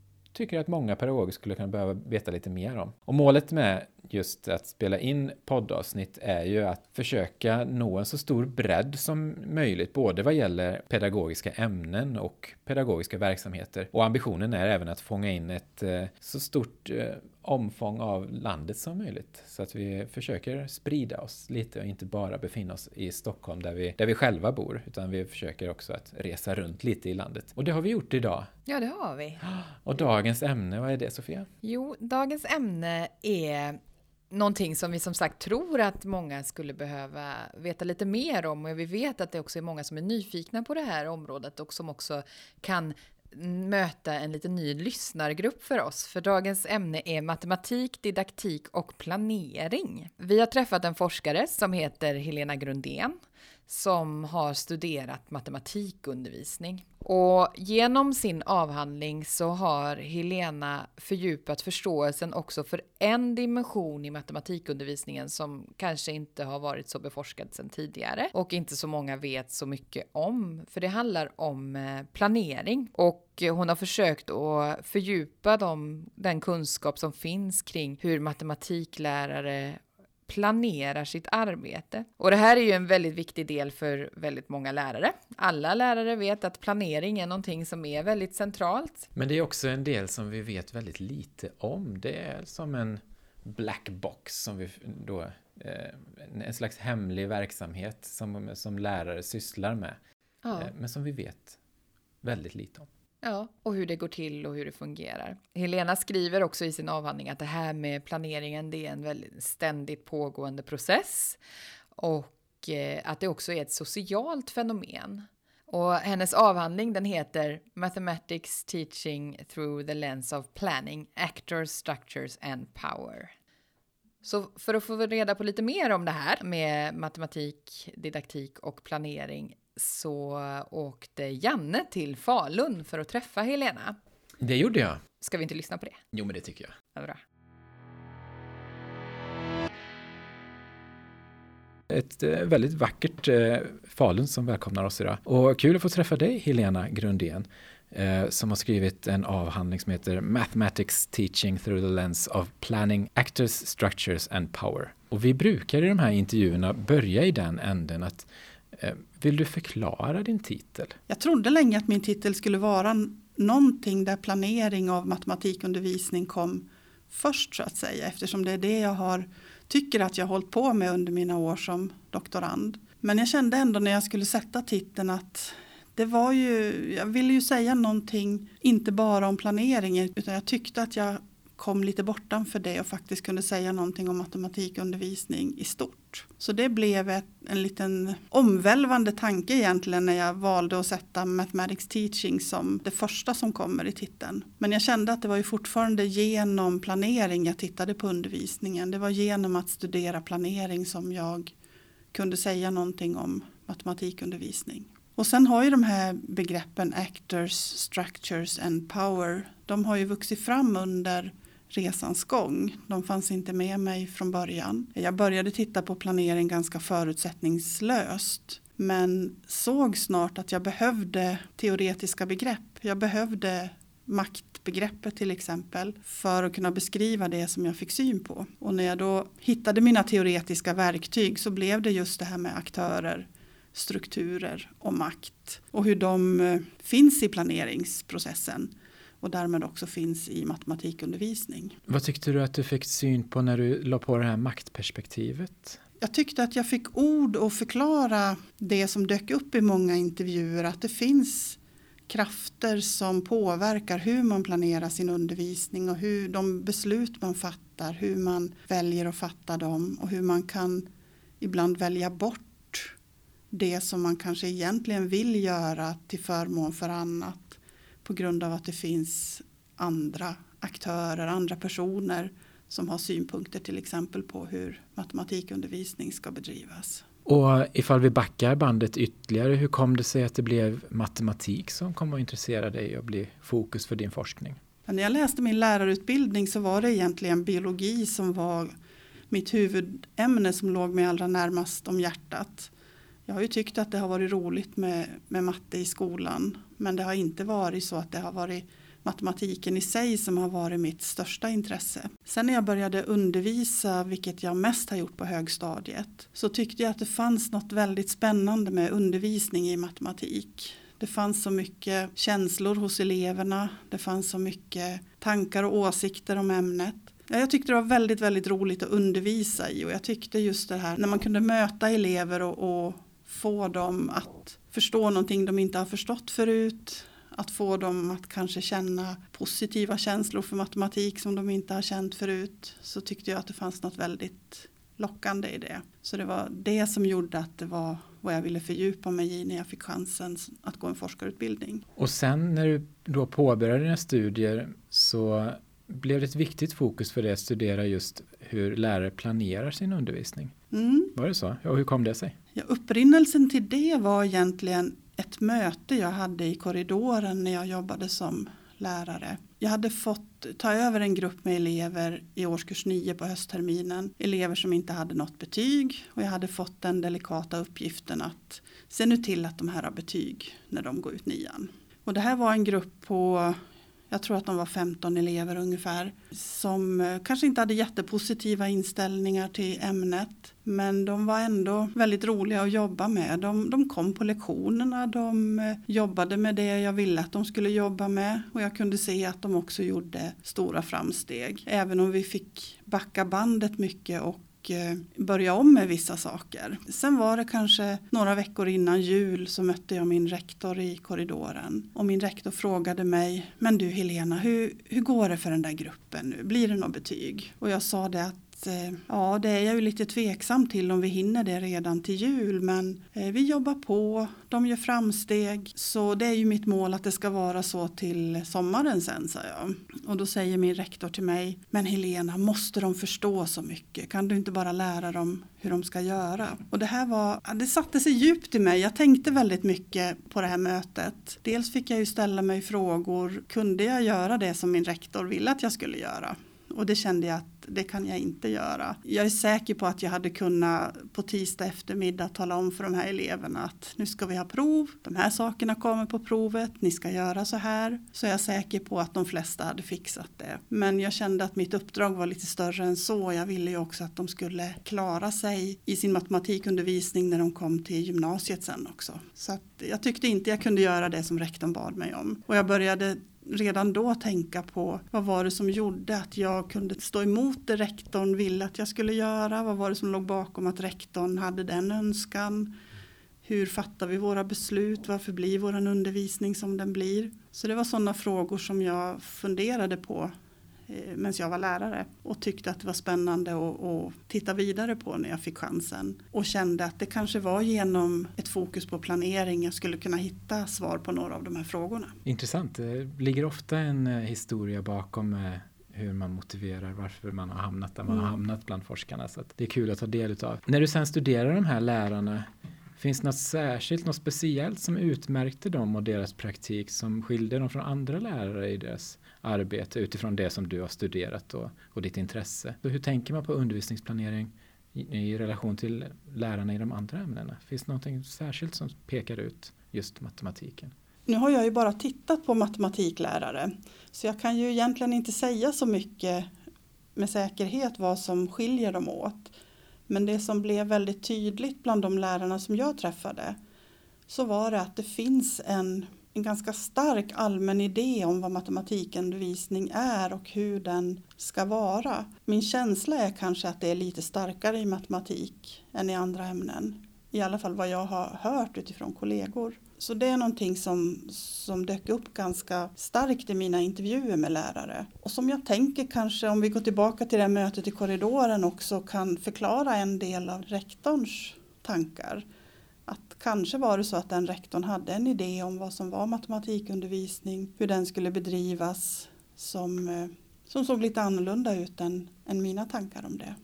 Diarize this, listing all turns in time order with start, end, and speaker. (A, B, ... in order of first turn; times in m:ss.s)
0:00.3-0:28.5 A
0:28.7-0:29.4 B
0:29.4-0:31.5 A
0:31.6-0:33.8 B
0:34.3-1:29.1 B
1:29.1-1:40.0 A
1:40.4-1:40.7 B
1:40.6-1:41.6 A
1:42.2-1:42.9 A
1:43.2-1:51.4 B
1:52.0-2:03.3 B
2:04.2-2:14.0 B
2:14.4-2:15.0 A
2:15.2-2:16.0 B
2:16.1-2:16.8 A
2:16.9-2:17.2 B
2:21.9-2:41.0 A
2:41.1-3:21.5 C
3:22.1-4:01.8 C
4:01.9-4:05.8 A
4:06.0-4:20.9 C
4:21.4-4:22.9 C
4:23.5-4:37.0 C
4:37.2-4:44.6 A
4:44.8-4:48.7 C
4:49.3-4:52.7 C
4:53.2-5:41.8 C
5:42.0-5:50.5 A
5:50.7-5:51.1 C
5:51.2-5:52.4 A
5:52.5-7:52.7 C
7:53.4-8:00.3 C
8:00.9-8:12.2 C
8:12.2-8:22.4 A
8:23.0-8:40.9 A
8:41.3-8:46.5 C
8:47.2-8:49.5 C
8:50.1-8:53.6 C
8:54.3-9:22.4 C
9:23.1-9:33.6 C